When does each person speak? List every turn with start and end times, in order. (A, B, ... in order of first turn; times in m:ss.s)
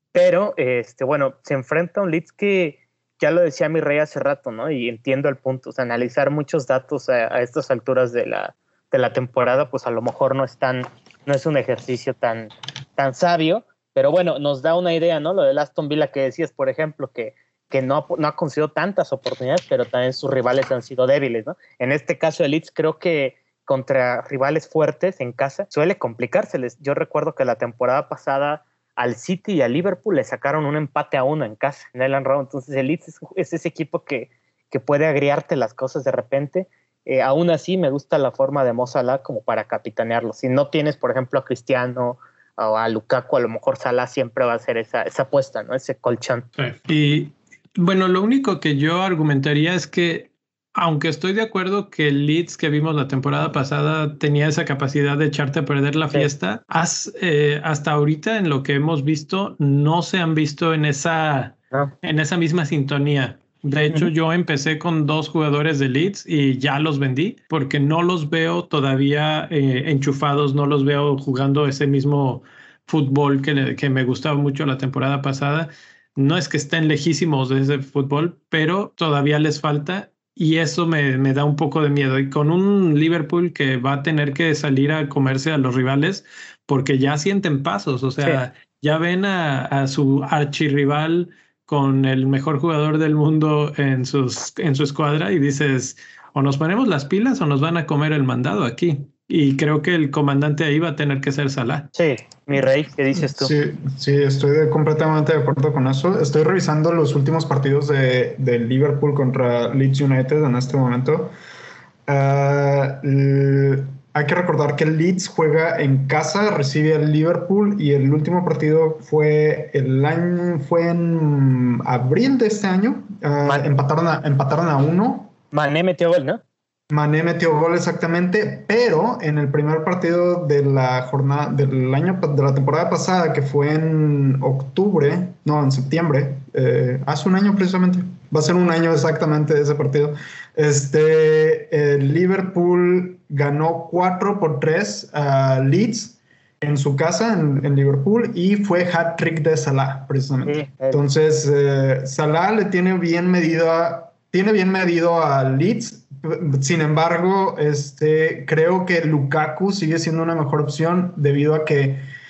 0:00.1-0:46.5 A
0:46.6-1:41.9 B
1:41.9-1:43.6 A
1:43.2-1:51.3 C
1:52.1-2:05.3 C
2:05.5-2:06.4 A
2:06.9-2:42.0 C
2:30.5-2:31.0 A